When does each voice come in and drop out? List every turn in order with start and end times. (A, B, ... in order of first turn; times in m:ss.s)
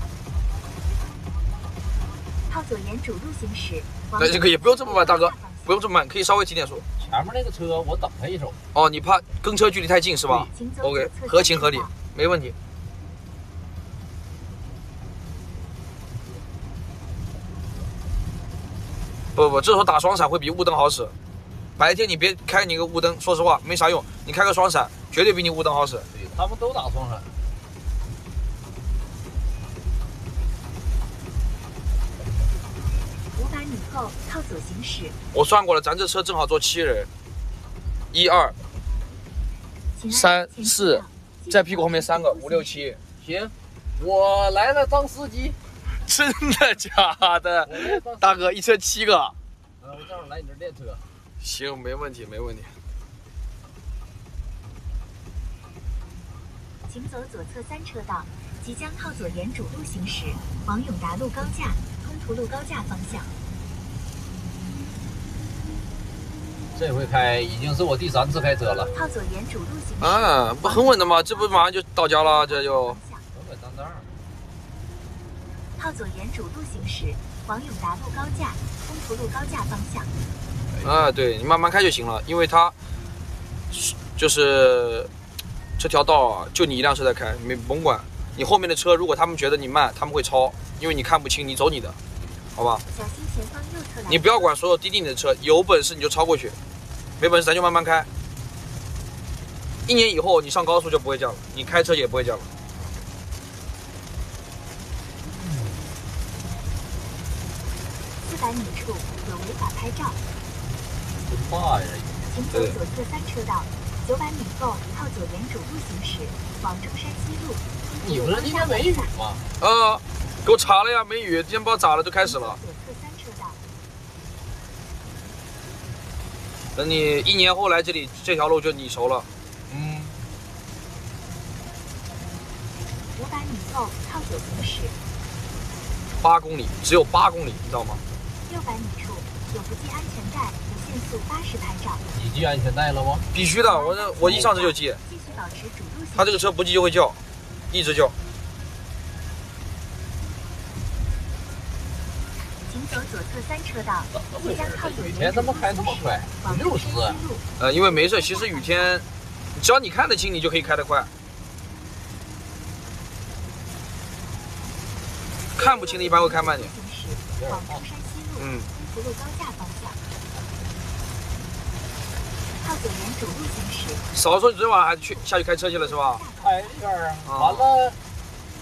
0:02.5-0:05.8 A
0:04.2-0:06.8 B
0:07.0-0:08.6 C
0:08.7-0:12.5 B
0:10.5-0:11.9 A
0:19.3-0:21.1 B
0:21.8-0:26.1 B
0:26.1-0:27.3 C
0:33.3-0:35.2 A
0:35.3-0:37.1 B
0:38.1-0:38.5 B
0:39.9-0:42.8 A
0:40.1-0:43.0 B
0:43.2-0:45.6 C
0:46.0-0:49.4 B
0:47.6-0:48.5 C
0:49.8-0:51.1 C
0:51.4-0:52.7 B
0:56.9-1:03.3 A
1:06.7-1:08.9 C
1:08.9-1:13.2 A
1:10.0-1:13.0 B
1:13.3-1:14.1 C
1:15.8-1:20.1 A
1:20.7-1:21.1 C
1:20.8-1:22.7 B
1:23.7-1:25.1 B
1:25.8-1:32.0 B
1:32.6-1:32.8 B
1:32.9-1:34.5 A
1:34.1-1:36.6 B
1:37.2-1:38.1 B
1:39.8-1:42.5 B
1:45.3-1:45.9 C
1:48.2-1:50.2 A
1:51.2-1:52.3 C
1:52.2-1:59.1 A
1:58.0-1:59.4 C
1:59.6-2:02.6 B
2:02.2-2:03.6 A
2:06.7-2:09.3 B
2:09.7-2:10.2 C
2:13.2-2:14.9 A
2:16.2-2:18.0 B
2:18.4-2:22.0 A
2:22.1-2:23.3 C
2:23.3-2:25.0 B
2:23.6-2:26.5 A
2:24.2-2:24.5 C
2:26.1-2:27.2 B
2:27.7-2:28.1 B
2:32.6-2:39.0 A
2:34.1-2:37.2 C
2:37.6-2:41.1 B
2:45.5-2:46.7 B
2:45.5-2:50.0 A
2:47.3-2:47.8 C
2:48.4-2:48.7 B
2:52.6-2:54.0 A
2:54.1-2:56.2 B
2:55.1-2:56.8 A
2:56.4-2:58.0 C
2:57.2-2:57.7 B